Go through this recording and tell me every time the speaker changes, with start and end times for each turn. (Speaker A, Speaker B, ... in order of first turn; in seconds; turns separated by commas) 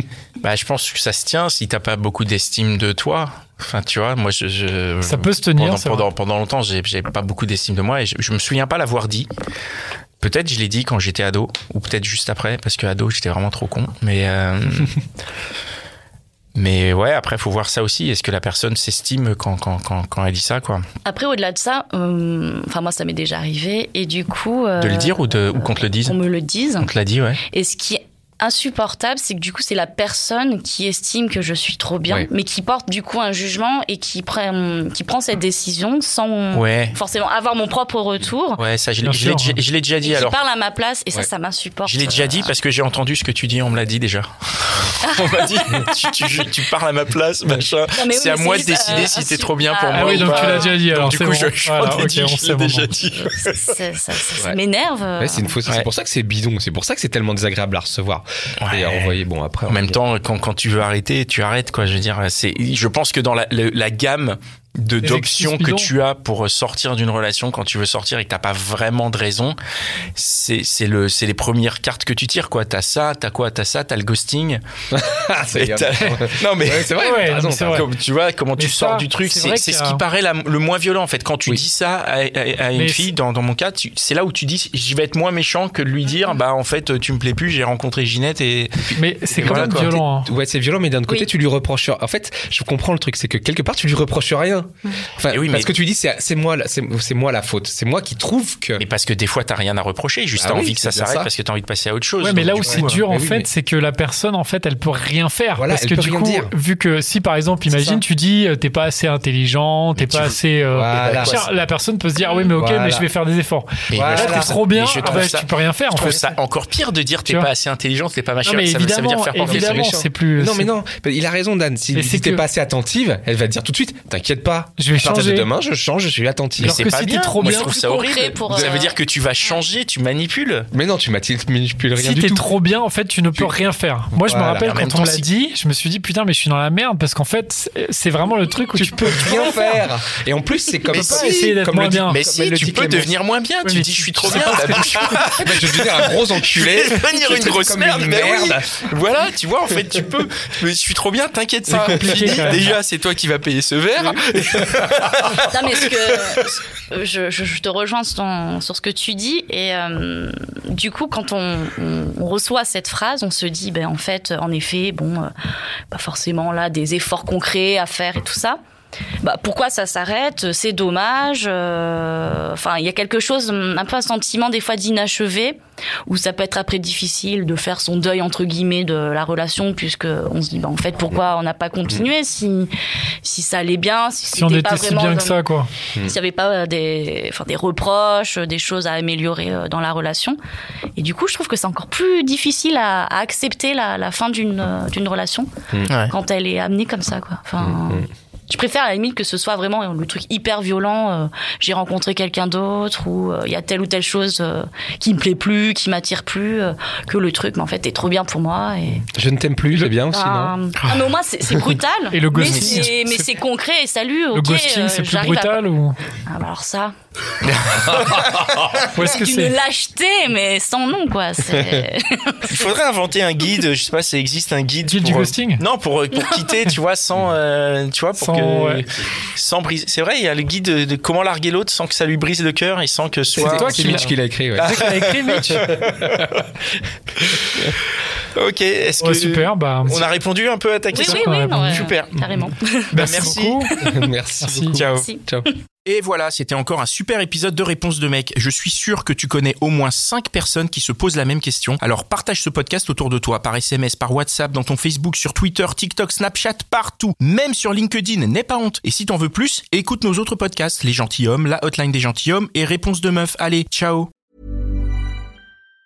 Speaker A: 0.4-9.3, Speaker B: 5.0-6.1, Speaker A: 10.2-14.9, Speaker A: 16.5-20.8, Speaker C: 21.0-26.9, Speaker A: 24.8-26.2, Speaker A: 26.8-27.4, Speaker C: 27.5-38.6, Speaker A: 36.5-37.0, Speaker A: 38.6-40.4, Speaker B: 39.0-39.6, Speaker C: 40.0-42.5, Speaker A: 41.9-53.7, Speaker C: 45.0-45.4, Speaker C: 47.9-50.8, Speaker B: 49.9-52.9, Speaker C: 53.4-55.5, Speaker D: 55.2-60.0, Speaker A: 58.6-59.1, Speaker A: 59.7-69.6, Speaker B: 65.0-65.9, Speaker A: 70.1-74.6, Speaker D: 74.9-77.8, Speaker A: 75.5-90.0, Speaker B: 77.0-77.9, Speaker B: 78.5-80.0, Speaker B: 82.7-83.1, Speaker B: 89.0-90.3, Speaker D: 89.4-98.8, Speaker A: 95.3-95.7, Speaker A: 98.8-103.0, Speaker D: 100.3-101.3, Speaker B: 102.2-116.2, Speaker D: 102.6-103.5, Speaker D: 105.5-106.5, Speaker D: 107.7-108.0, Speaker A: 109.9-111.5, Speaker D: 110.7-111.4, Speaker C: 112.2-112.5, Speaker D: 112.5-113.1, Speaker A: 113.9-119.9, Speaker D: 113.9-115.3, Speaker B: 118.4-120.7, Speaker D: 119.4-126.8, Speaker B: 121.9-122.4, Speaker B: 124.8-125.5, Speaker A: 126.6-130.7, Speaker B: 126.6-127.7, Speaker C: 127.4-129.0, Speaker D: 130.7-132.5, Speaker B: 131.9-139.8, Speaker D: 134.1-134.7, Speaker A: 134.5-135.3, Speaker D: 138.7-143.1, Speaker A: 140.9-155.9, Speaker B: 140.9-142.2, Speaker B: 143.6-145.2, Speaker D: 144.3-148.7, Speaker B: 151.7-152.7, Speaker D: 151.9-152.5, Speaker D: 154.1-154.8, Speaker C: 155.5-165.3, Speaker C: 165.9-168.6, Speaker C: 169.2-182.7, Speaker C: 183.2-185.4, Speaker B: 184.3-185.7, Speaker C: 186.0-190.4, Speaker C: 190.9-195.5, Speaker A: 195.9-196.1, Speaker C: 196.0-209.0, Speaker D: 197.6-198.0, Speaker D: 209.1-210.5, Speaker C: 210.1-216.9, Speaker B: 212.1-213.2, Speaker A: 212.5-212.9, Speaker B: 214.3-216.0, Speaker A: 217.4-218.8, Speaker C: 218.8-222.5, Speaker B: 218.9-219.5, Speaker D: 221.5-221.8, Speaker A: 222.5-236.4, Speaker B: 224.9-225.6, Speaker B: 228.2-228.8, Speaker D: 233.3-234.7, Speaker B: 233.4-235.8, Speaker D: 235.6-236.1, Speaker A: 237.2-237.8, Speaker A: 238.3-242.2, Speaker B: 239.0-240.0, Speaker C: 240.9-243.3, Speaker B: 241.0-241.9, Speaker A: 242.9-243.7, Speaker B: 242.9-243.8, Speaker D: 243.8-245.5, Speaker B: 244.4-244.8, Speaker A: 244.7-245.1, Speaker C: 244.9-245.3, Speaker A: 245.8-264.1